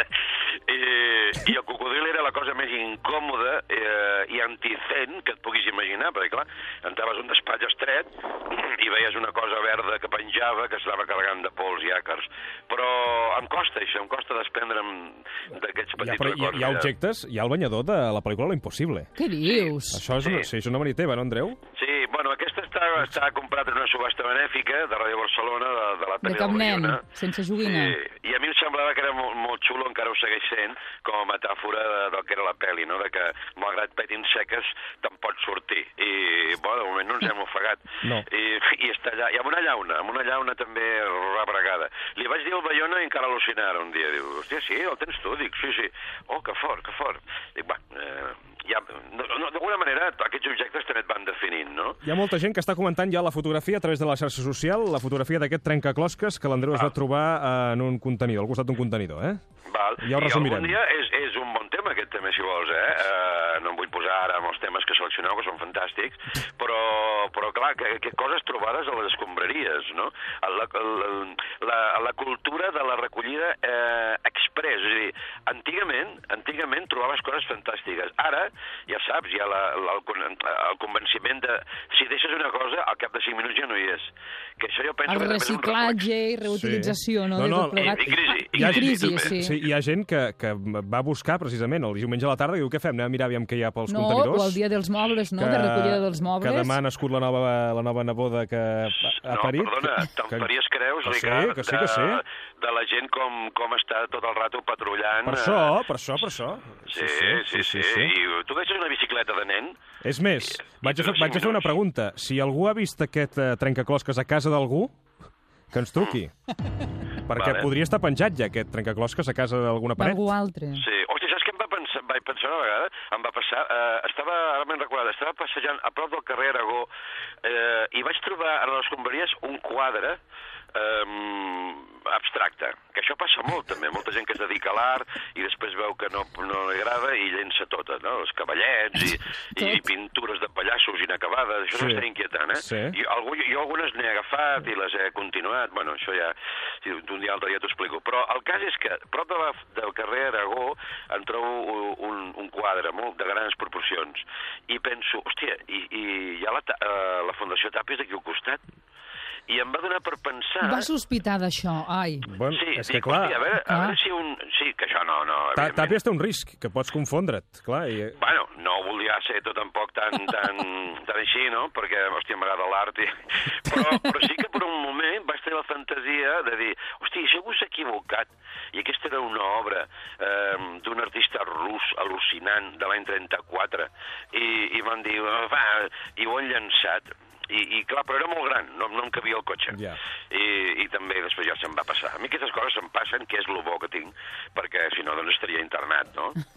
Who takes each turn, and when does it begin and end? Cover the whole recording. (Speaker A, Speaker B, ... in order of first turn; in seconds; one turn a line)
Speaker A: 0.6-16.9
Speaker B: 16.0-19.1
Speaker C: 19.2-20.0
Speaker A: 19.4-20.5
Speaker B: 19.9-21.6
Speaker A: 21.7-27.0
Speaker C: 26.2-27.9
Speaker A: 27.6-52.0
Speaker B: 52.0-59.4
Speaker A: 59.7-86.1
Speaker B: 60.0-60.8
Speaker C: 85.1-89.6
Speaker B: 86.5-94.6
Speaker A: 87.8-89.3
Speaker C: 93.9-96.8
Speaker B: 95.4-100.5
Speaker A: 99.1-105.8
Speaker B: 101.0-102.2
Speaker B: 105.2-108.1
Speaker A: 106.9-109.8
Speaker B: 110.0-114.9
Speaker A: 110.6-111.8
Speaker B: 115.7-116.3
Speaker B: 117.3-120.2
Speaker A: 117.3-117.7
Speaker C: 120.0-120.8
Speaker A: 120.7-126.9
Speaker A: 127.4-130.2
Speaker A: 130.7-158.6
Speaker B: 141.7-143.0
Speaker A: 159.5-160.9
Speaker C: 160.6-162.3
Speaker B: 162.2-163.5
Speaker A: 162.5-166.0
Speaker C: 163.6-163.9
Speaker B: 165.6-168.2
Speaker A: 168.2-196.4
Speaker B: 189.7-190.0